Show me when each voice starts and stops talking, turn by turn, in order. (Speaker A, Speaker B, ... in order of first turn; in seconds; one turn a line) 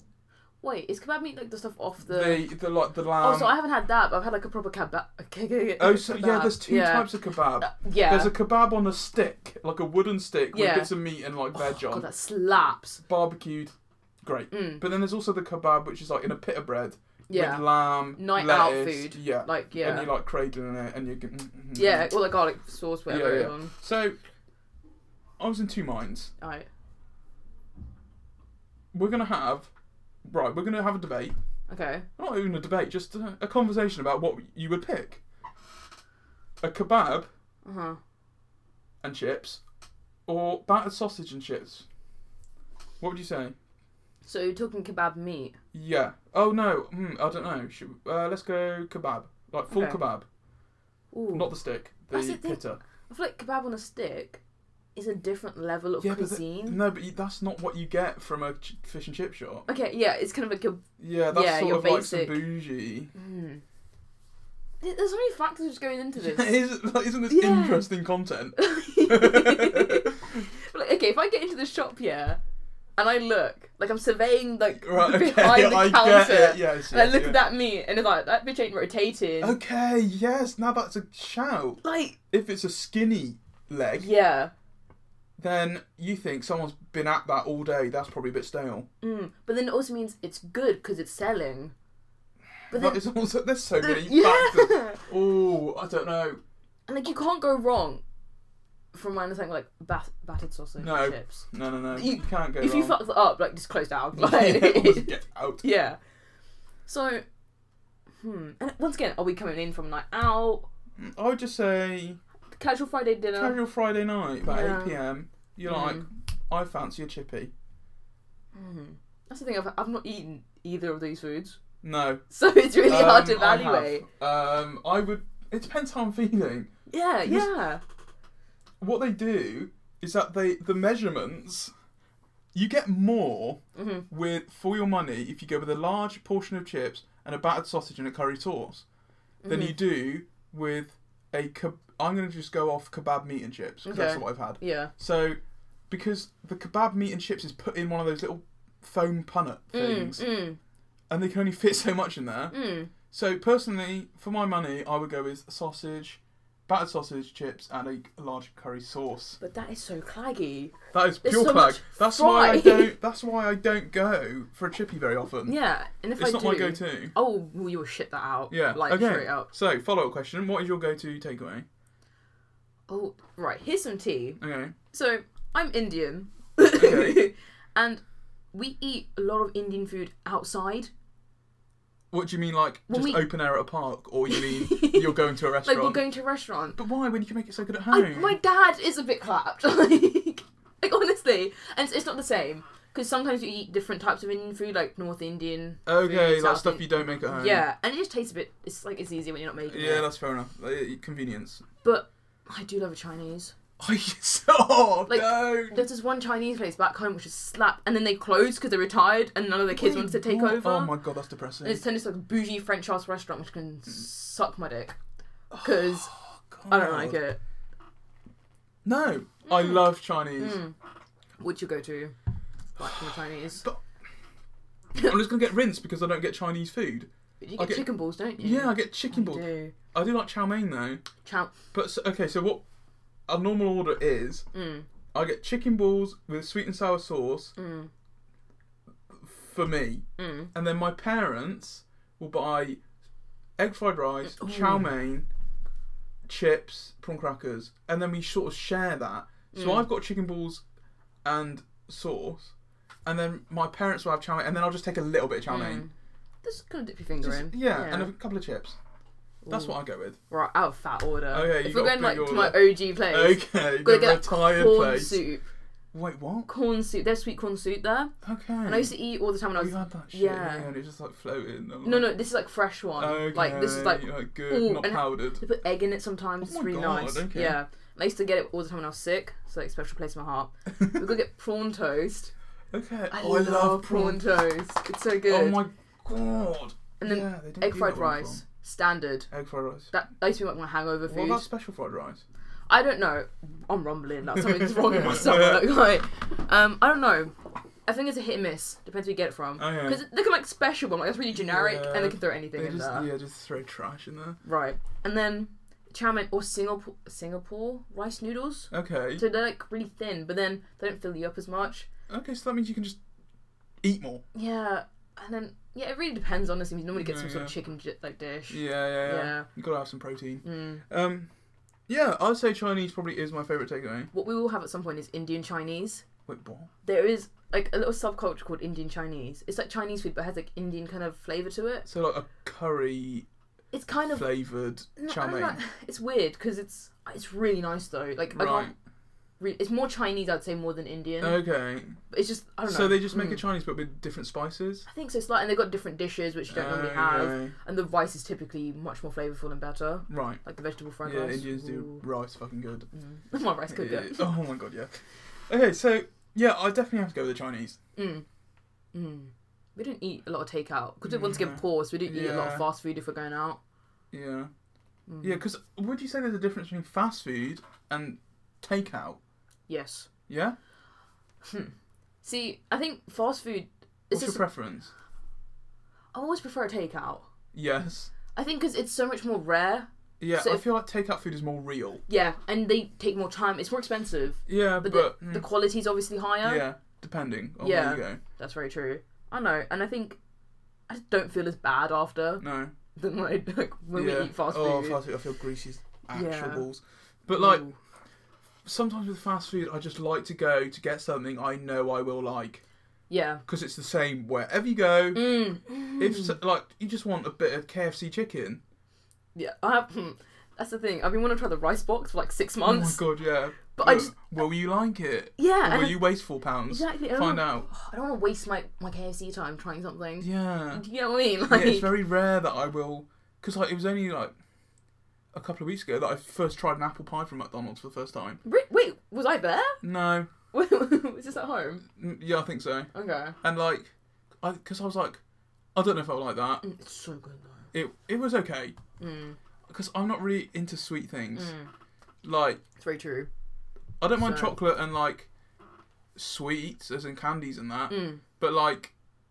Speaker A: 0.6-2.5
Speaker B: 2.0-3.5
Speaker A: 3.2-8.3
Speaker B: 5.8-12.1
Speaker A: 10.5-10.9
Speaker A: 11.5-13.0
Speaker B: 13.1-22.1
Speaker A: 14.5-14.9
Speaker A: 17.3-20.1
Speaker A: 21.8-23.7
Speaker B: 23.1-24.2
Speaker B: 25.4-26.3
Speaker A: 26.4-26.7
Speaker B: 28.9-29.7
Speaker B: 30.2-31.4
Speaker A: 31.7-32.1
Speaker B: 32.2-35.2
Speaker B: 36.6-37.3
Speaker A: 37.6-38.0
Speaker B: 39.0-39.6
Speaker B: 40.3-41.9
Speaker B: 43.0-43.5
Speaker A: 44.2-45.6
Speaker B: 45.7-50.3
Speaker A: 49.7-50.0
Speaker A: 51.1-51.5
Speaker B: 51.3-52.8
Speaker A: 52.1-54.4
Speaker A: 55.0-56.8
Speaker B: 56.0-59.7
Speaker A: 59.7-62.4
Speaker B: 61.0-63.1
Speaker A: 63.1-63.6
Speaker A: 64.8-66.5
Speaker B: 66.2-70.5
Speaker A: 67.3-67.9
Speaker A: 68.6-72.4
Speaker A: 73.0-79.6
Speaker B: 74.8-77.4
Speaker B: 79.4-84.1
Speaker A: 81.8-82.2
Speaker A: 84.0-84.5
Speaker B: 85.4-88.9
Speaker A: 89.0-91.7
Speaker B: 92.7-96.4
Speaker A: 92.7-93.0
Speaker A: 93.8-95.0
Speaker A: 96.9-98.0
Speaker A: 98.9-106.0
Speaker B: 100.8-103.0
Speaker B: 104.1-105.6
Speaker A: 106.9-107.2
Speaker A: 108.2-110.7
Speaker B: 111.0-112.2
Speaker A: 112.5-113.6
Speaker B: 113.3-117.5
Speaker A: 114.5-115.0
Speaker A: 115.7-116.1
Speaker A: 118.5-121.6
Speaker B: 121.8-122.2
Speaker A: 122.3-124.1
Speaker B: 122.8-126.7
Speaker A: 126.9-127.8
Speaker B: 127.2-127.5
Speaker B: 128.8-131.7
Speaker B: 132.5-138.8
Speaker A: 133.8-134.1
Speaker A: 139.4-139.8
Speaker B: 139.5-145.4
Speaker A: 143.8-144.9
Speaker B: 145.9-150.2
Speaker A: 149.7-150.6
Speaker B: 151.1-152.6
Speaker A: 152.5-152.9
Speaker B: 153.1-159.4
Speaker A: 159.4-162.9
Speaker B: 160.9-165.6
Speaker A: 165.5-169.5
Speaker B: 166.2-167.2
Speaker B: 168.5-171.7
Speaker A: 172.9-174.4
Speaker B: 174.4-174.8
Speaker A: 174.9-178.0
Speaker B: 176.8-177.3
Speaker A: 178.5-180.9
Speaker B: 182.1-186.0
Speaker A: 182.9-183.3
Speaker A: 184.3-186.8
Speaker B: 186.8-188.4
Speaker A: 187.9-200.1
Speaker B: 195.9-197.7
Speaker B: 199.7-201.6
Speaker A: 201.8-203.5
Speaker B: 203.8-205.8
Speaker A: 205.1-210.9
Speaker B: 209.7-211.8
Speaker A: 211.6-215.0
Speaker B: 215.5-217.2
Speaker A: 215.6-216.1
Speaker A: 216.7-217.4
Speaker B: 218.8-220.6
Speaker A: 219.5-219.9
Speaker A: 220.4-220.8
Speaker A: 221.4-222.1
Speaker A: 222.8-223.6
Speaker B: 225.0-227.9
Speaker A: 227.4-229.8
Speaker B: 228.4-231.0
Speaker A: 231.2-231.5
Speaker B: 231.7-232.6
Speaker B: 233.3-234.5
Speaker A: 234.5-234.9
Speaker B: 235.1-237.5
Speaker A: 237.6-237.9
Speaker B: 239.1-242.8
Speaker A: 240.2-240.5
Speaker B: 243.6-245.3
Speaker A: 244.2-244.9
Speaker B: 246.3-250.6
Speaker A: 249.5-249.9
Speaker B: 251.2-252.5
Speaker B: 253.1-255.8
Speaker A: 255.5-255.9
Speaker A: 256.4-258.1
Speaker B: 257.2-258.8
Speaker A: 259.4-259.8
Speaker B: 259.5-260.2
Speaker A: 260.3-265.4
Speaker B: 261.3-265.2
Speaker B: 265.9-266.5
Speaker A: 266.5-268.1
Speaker B: 268.2-268.9
Speaker A: 268.6-270.7
Speaker B: 269.6-272.1
Speaker A: 271.8-282.3
Speaker B: 273.0-275.4
Speaker B: 276.4-277.6
Speaker B: 282.7-284.3
Speaker A: 283.1-285.6
Speaker B: 285.3-288.4
Speaker A: 287.0-289.3
Speaker B: 289.3-289.9
Speaker A: 289.9-291.4
Speaker B: 291.1-292.2
Speaker A: 292.7-297.4
Speaker B: 294.4-295.7
Speaker A: 297.9-303.1
Speaker B: 299.6-300.0
Speaker B: 301.3-304.4
Speaker A: 304.4-311.9
Speaker B: 308.7-309.2
Speaker B: 312.1-313.0
Speaker B: 313.8-314.2
Speaker A: 314.3-319.5
Speaker B: 316.9-317.5
Speaker B: 318.5-321.3
Speaker A: 320.4-320.8
Speaker B: 321.9-324.1
Speaker A: 324.1-326.1
Speaker B: 326.3-326.7
Speaker A: 326.8-331.9
Speaker B: 331.9-333.3
Speaker A: 333.7-334.3
Speaker B: 334.1-335.6
Speaker A: 335.0-338.7
Speaker B: 338.3-338.7
Speaker A: 339.4-341.4
Speaker B: 341.2-342.0
Speaker A: 342.1-343.4
Speaker B: 342.7-344.9
Speaker A: 344.9-352.1
Speaker B: 346.5-347.5
Speaker B: 350.1-350.4
Speaker B: 351.0-352.9
Speaker A: 352.9-354.3
Speaker B: 353.7-357.8
Speaker A: 358.0-358.2
Speaker A: 358.9-363.6
Speaker B: 361.0-362.7
Speaker B: 364.1-364.5
Speaker A: 365.1-365.4
Speaker B: 365.2-369.2
Speaker A: 369.7-370.1
Speaker B: 370.3-370.6
Speaker A: 371.4-374.4
Speaker B: 374.1-374.9
Speaker A: 376.1-377.3
Speaker B: 377.5-378.1
Speaker A: 378.3-380.6
Speaker B: 380.2-382.0
Speaker A: 382.1-386.6
Speaker B: 384.5-385.5
Speaker B: 386.4-388.2
Speaker A: 387.6-390.2
Speaker A: 390.9-392.4
Speaker B: 392.4-392.7
Speaker A: 393.0-395.0
Speaker B: 393.9-397.6
Speaker A: 396.1-396.6
Speaker A: 397.3-397.8
Speaker B: 398.6-402.6
Speaker A: 403.1-403.4
Speaker B: 403.5-405.3
Speaker A: 405.1-406.4
Speaker B: 406.0-408.6
Speaker A: 409.4-413.0
Speaker B: 412.6-417.7
Speaker A: 413.8-414.1
Speaker A: 415.4-416.1
Speaker A: 416.7-421.9
Speaker B: 420.2-420.8
Speaker B: 421.5-424.3
Speaker B: 425.3-428.4
Speaker A: 428.4-429.8
Speaker B: 429.8-430.3
Speaker A: 430.5-431.9
Speaker B: 431.9-432.9
Speaker A: 432.9-433.4
Speaker B: 433.4-435.2
Speaker B: 435.8-436.6
Speaker A: 436.6-437.6
Speaker B: 437.7-438.8
Speaker A: 439.0-439.4
Speaker B: 439.7-441.5
Speaker A: 441.4-441.7
Speaker B: 442.2-442.6
Speaker A: 442.8-443.3
Speaker B: 444.0-445.3
Speaker A: 444.2-444.5
Speaker B: 446.2-448.9
Speaker A: 447.9-448.2